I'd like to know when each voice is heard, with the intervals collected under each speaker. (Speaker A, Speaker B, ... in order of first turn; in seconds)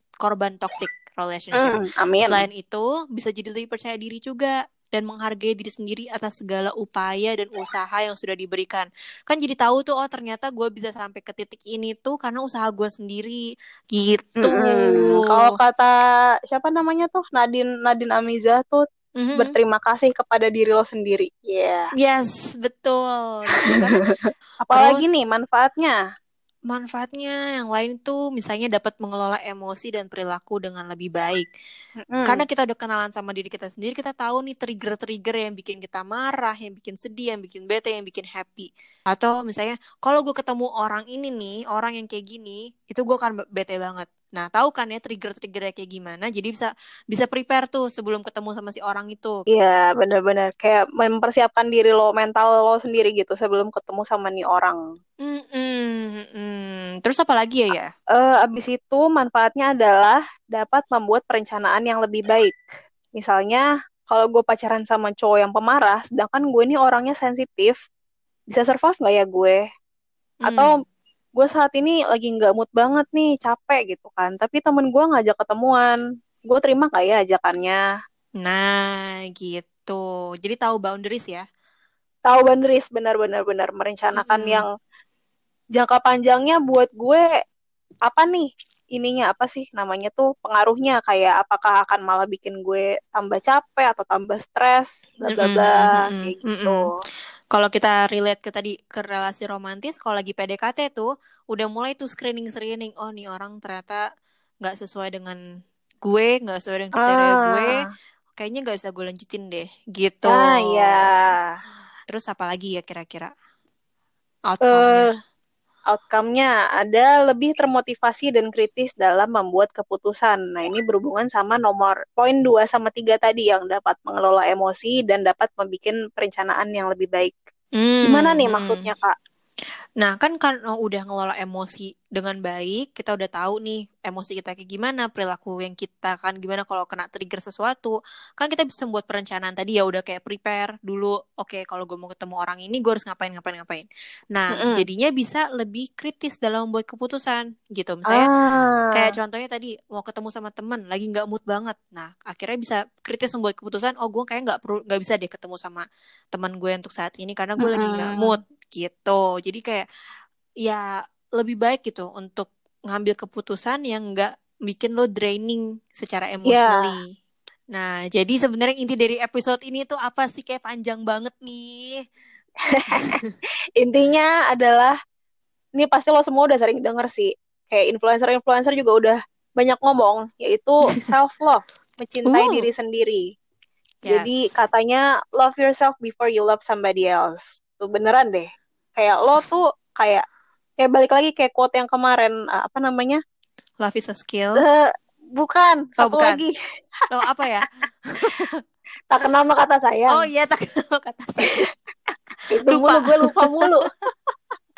Speaker A: 0.2-15.6, 19.2-19.6, 22.0-24.0, 24.7-25.1, 26.7-31.5, 32.3-49.4, 55.2-57.9, 70.5-70.8, 78.4-81.4, 84.2-84.7, 95.3-96.8, 97.5-104.0, 104.6-105.4, 106.0-107.8, 108.3-111.1, 112.1-113.3, 114.5-115.1, 127.8-128.9, 130.0-148.3, 148.9-159.9, 161.4-167.1, 167.7-172.0, 173.0-173.3, 182.3-182.7, 184.0-184.4, 193.8-194.6, 196.0-196.4, 197.1-197.7, 198.2-198.6, 200.1-201.6, 202.6-203.7
Speaker B: 1.6-2.5, 14.4-18.8, 19.4-21.9, 23.7-26.0, 32.0-32.4, 49.5-54.8, 58.1-62.6, 63.1-67.8, 68.5-69.6, 70.5-70.7, 71.4-77.8, 82.3-84.7, 85.8-87.3, 88.1-96.9, 107.0-107.8, 110.3-111.4, 114.6-115.1, 115.9-127.3, 128.1-129.1, 144.5-144.8, 148.1-149.1, 157.6-158.4, 166.5-166.9, 172.7-173.2, 173.8-174.9, 175.8-183.2, 184.1-190.2, 190.8-193.2, 194.6-196.5, 199.1-200.3, 202.5-203.9